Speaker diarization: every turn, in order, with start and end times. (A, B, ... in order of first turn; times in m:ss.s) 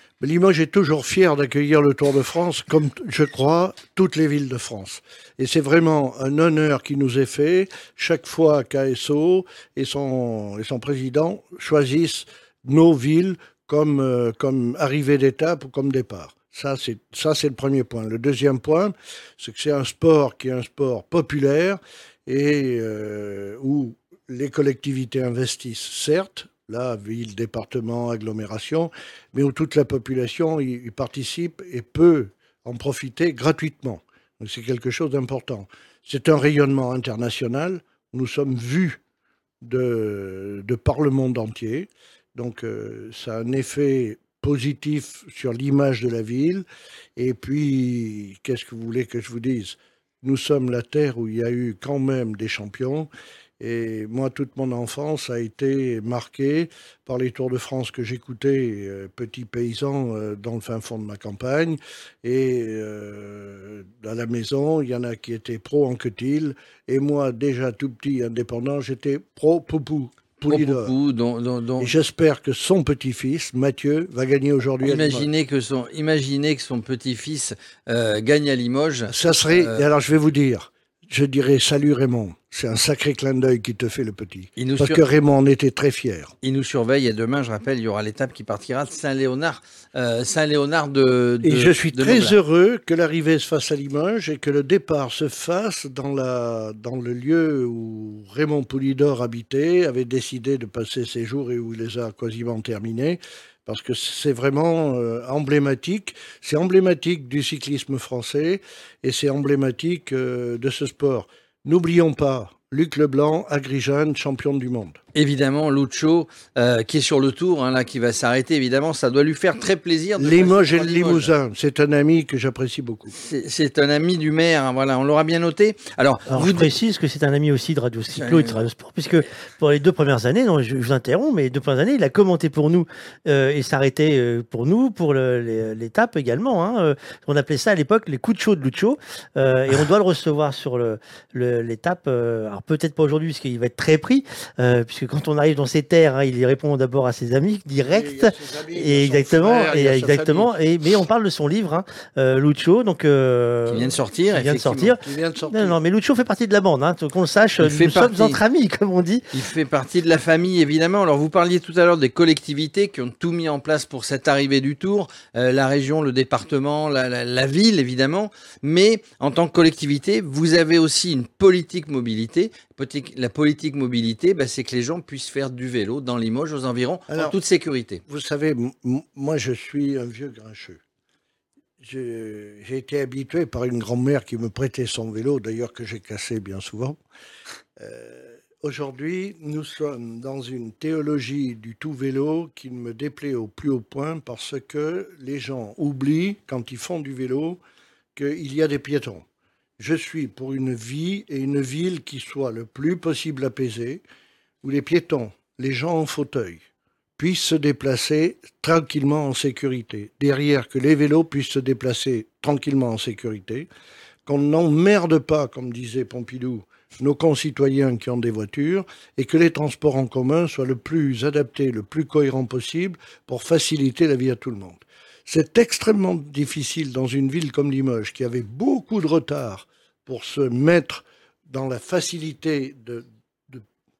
0:00.2-0:39.0 A
0:39.6-1:10.9 A
1:10.5-1:11.9 B
1:11.8-1:15.3 A
1:14.8-1:19.8 B
1:19.1-1:26.3 A
1:24.6-1:25.0 B
1:26.4-1:32.4 B
1:31.4-1:55.0 A
1:55.1-2:01.3 B
2:00.2-2:03.1 A
2:03.2-2:06.7 B
2:06.3-2:39.3 C
2:08.1-2:08.7 B
2:27.8-2:30.5 A
2:33.7-2:34.9 B
2:34.8-2:35.8 A
2:37.6-2:38.4 B
2:39.3-2:58.0 B
2:57.1-2:57.4 A
2:58.0-3:00.8 A
3:01.8-3:07.0 A
3:07.8-3:17.6 A
3:18.1-3:19.2 A
3:19.8-3:24.0 A
3:24.6-3:26.6 A
3:27.2-3:33.7 A
3:34.2-3:53.6 A